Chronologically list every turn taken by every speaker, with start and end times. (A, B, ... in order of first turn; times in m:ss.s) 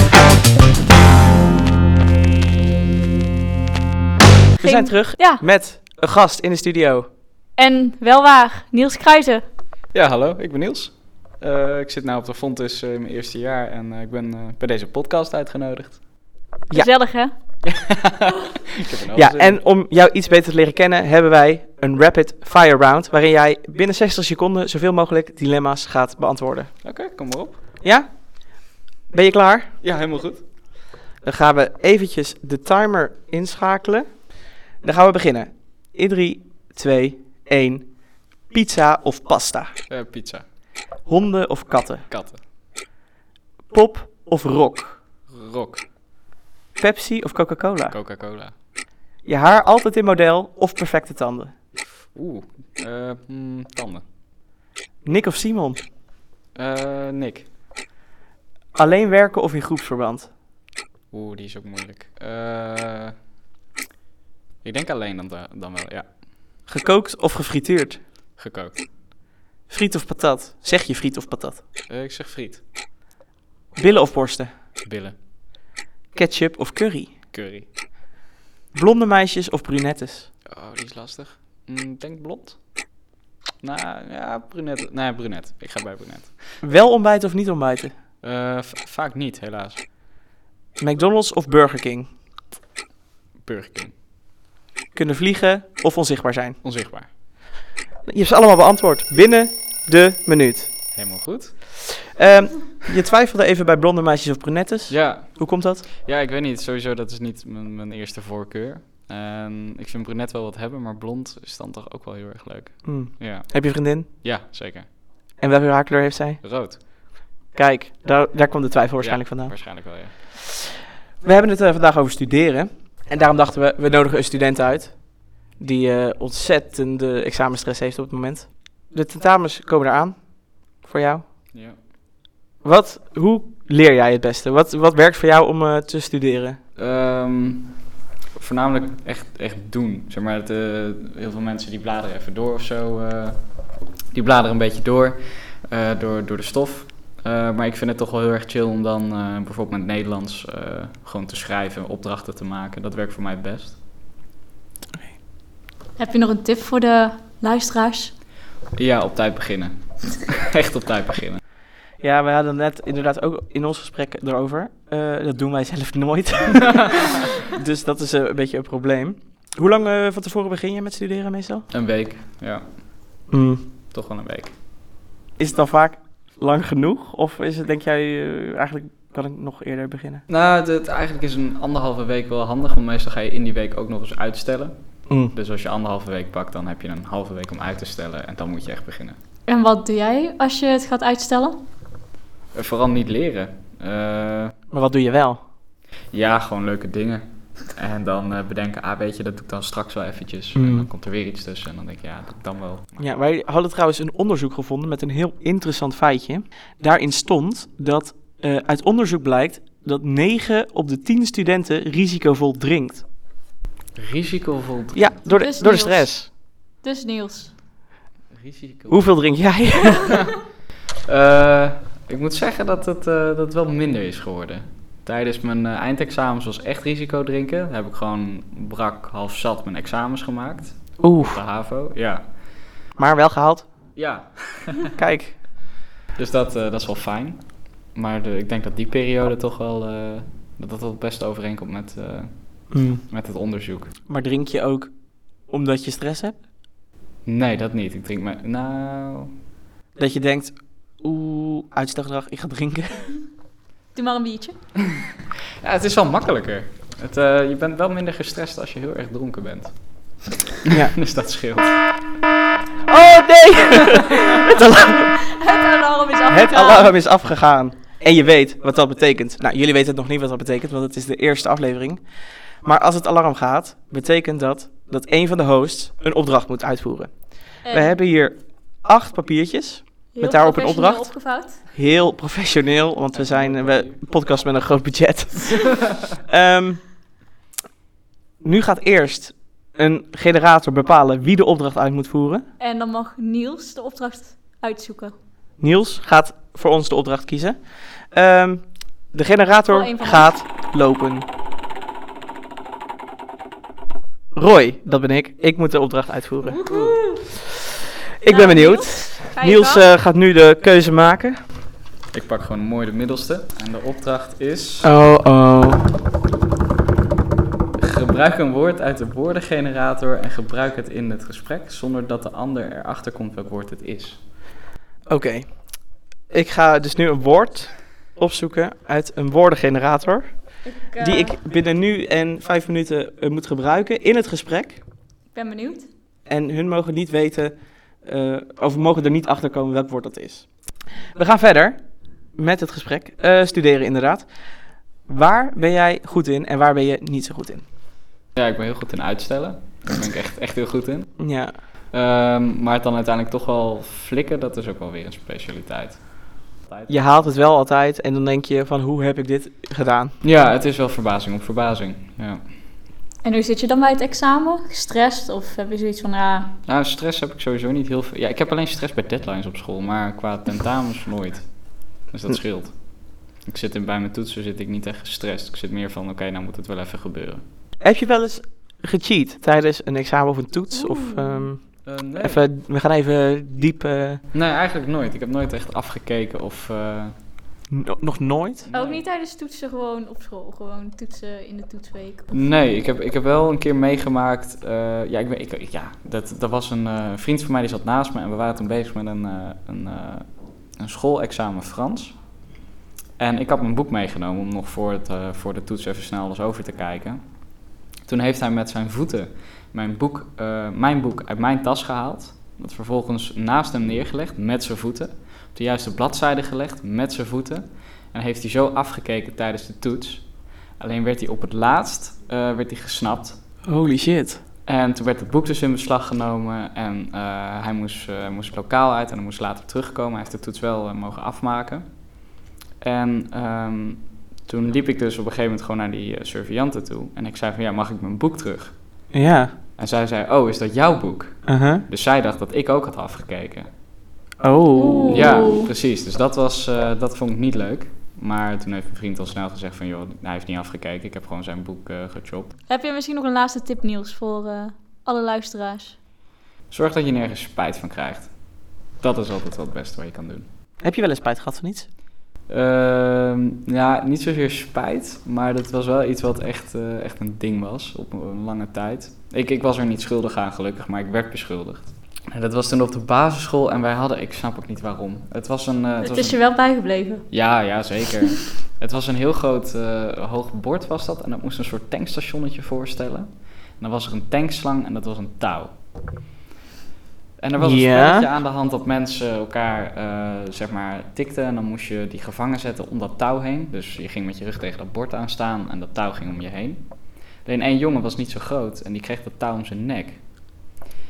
0:04.6-0:05.4 A
0:04.6-0:07.1 B
0:07.6-0:09.4 A
0:09.9-0:16.0 C
0:16.7-0:17.3 A
0:17.6-0:19.6 C
0:19.1-0:26.7 B
0:26.8-0:27.6 C
0:27.8-0:28.1 B
0:29.1-0:29.7 B
0:29.8-0:30.4 C
0:31.2-0:34.1 B
0:34.8-0:37.9 B
0:38.5-0:39.7 B
0:39.9-0:40.4 C
0:41.1-0:42.0 B
0:42.1-0:42.4 C
0:43.7-0:45.0 B
0:45.3-0:45.8 C
0:46.8-0:47.9 B
0:47.9-0:48.5 C
0:49.2-0:51.5 B
0:52.1-0:54.0 C
0:55.0-0:55.8 B
0:56.6-0:57.5 C
0:58.8-1:00.3 B
1:01.1-1:03.1 C
1:04.6-1:06.1 C
1:06.7-1:08.0 B
1:08.4-1:08.8 C
1:09.7-1:11.6 B
1:11.9-1:12.6 C
1:13.8-1:14.5 B
1:14.8-1:15.2 C
1:16.1-1:17.1 B
1:17.3-1:17.6 C
1:18.7-1:20.3 B
1:20.5-1:22.6 C
1:23.6-1:26.5 C
1:26.6-1:27.9 B
1:28.2-1:29.8 C
1:30.8-1:32.1 B
1:33.4-1:33.9 C
1:34.9-1:36.6 B
1:36.6-1:37.1 C
1:38.0-1:40.8 B
1:40.9-1:41.8 C
1:42.0-1:45.8 B
1:44.9-1:53.5 C
1:52.8-1:54.1 B
1:54.1-1:54.9 C
1:55.4-1:56.4 B
1:56.4-1:56.8 C
1:57.5-1:59.5 B
1:59.0-2:00.1 C
2:01.2-2:05.0 B
2:05.6-2:10.2 B
2:10.8-2:11.2 B
2:11.5-2:11.8 C
2:12.6-2:16.6 B
2:16.8-2:17.7 C
2:18.3-2:23.4 C
2:24.1-2:33.8 C
2:36.0-2:38.1 A
2:38.8-2:41.4 C
2:42.0-2:51.6 B
2:51.7-2:52.6 C
2:53.3-2:53.6 B
2:53.9-2:54.5 C
2:55.4-3:00.2 B
3:00.3-3:04.7 C
3:05.3-3:09.2 C
3:09.5-3:11.6 A
3:12.5-3:14.5 C
3:14.7-3:15.4 B
3:16.1-3:23.2 C
3:20.5-3:20.9 B
3:23.0-3:33.0 B
3:34.0-3:35.1 C
3:34.9-3:36.3 B
3:35.3-3:36.1 A
3:36.8-3:37.5 A
3:38.3-3:39.0 C
3:38.9-3:40.1 B
3:41.0-3:52.2 C
3:51.0-3:51.4 B
3:53.0-3:53.6 B
3:54.0-3:54.9 C
3:54.9-3:55.3 B
3:56.2-3:57.4 C
3:57.9-4:03.9 C
4:02.7-4:03.0 B
4:04.1-4:04.9 B
4:05.5-4:06.4 B
4:07.2-4:09.3 C
4:10.0-4:13.1 B
4:13.9-4:14.5 A
4:15.6-4:19.7 C
4:20.6-4:21.8 C
4:22.9-4:25.2 B
4:23.9-4:24.3 C
4:25.2-4:26.9 A
4:26.3-4:32.0 B
4:32.6-4:37.1 B
4:37.6-4:38.0 A
4:37.7-4:41.1 B
4:40.1-4:41.6 A
4:41.7-4:46.8 B
4:43.1-4:43.9 C
4:48.4-4:52.4 B
4:52.6-4:55.1 A
4:55.6-4:57.6 B
4:58.1-5:01.2 B
4:59.7-5:00.3 A
5:04.4-5:06.6 B
5:06.4-5:07.2 A
5:08.2-5:11.4 B
5:08.2-5:09.8 A
5:12.1-5:14.9 C
5:14.8-5:15.8 B
5:17.8-5:24.2 C
5:25.1-5:25.5 B
5:26.3-5:30.3 B
5:30.6-5:31.3 A
5:31.0-5:34.8 B
5:35.3-5:35.9 A
5:36.3-5:40.5 B
5:41.2-5:41.8 B
5:42.4-5:44.2 B
5:45.1-5:47.6 B
5:48.3-5:51.2 C
5:51.2-5:51.5 B
5:51.9-5:56.0 C
5:56.9-6:00.1 B
6:00.2-6:02.4 C
6:03.2-6:06.5 A
6:06.7-6:12.8 C
6:13.4-6:17.4 C
6:17.8-6:24.2 B
6:20.7-6:21.5 A
6:21.8-6:22.4 C
6:24.3-6:27.1 C
6:27.7-6:28.7 B
6:28.7-6:29.0 C
6:28.7-6:32.3 A
6:32.3-6:40.3 C
6:40.8-6:42.2 C
6:43.2-6:47.2 C
6:48.0-7:00.2 C
7:00.8-7:03.4 C
7:03.6-7:04.4 B
7:04.7-7:11.9 C
7:12.8-7:18.8 C
7:19.1-7:19.5 B
7:19.8-7:23.7 C
7:21.5-7:21.8 B
7:24.4-7:25.2 B
7:24.8-7:25.7 A
7:25.1-7:32.5 C
7:32.7-7:36.0 A
7:36.7-7:38.3 C
7:39.0-7:40.4 C
7:40.8-7:41.9 B
7:42.5-7:56.4 C
7:56.0-7:57.2 A
7:57.3-8:05.7 C
8:07.4-8:16.8 C
8:07.6-8:08.3 B
8:17.4-8:20.2 C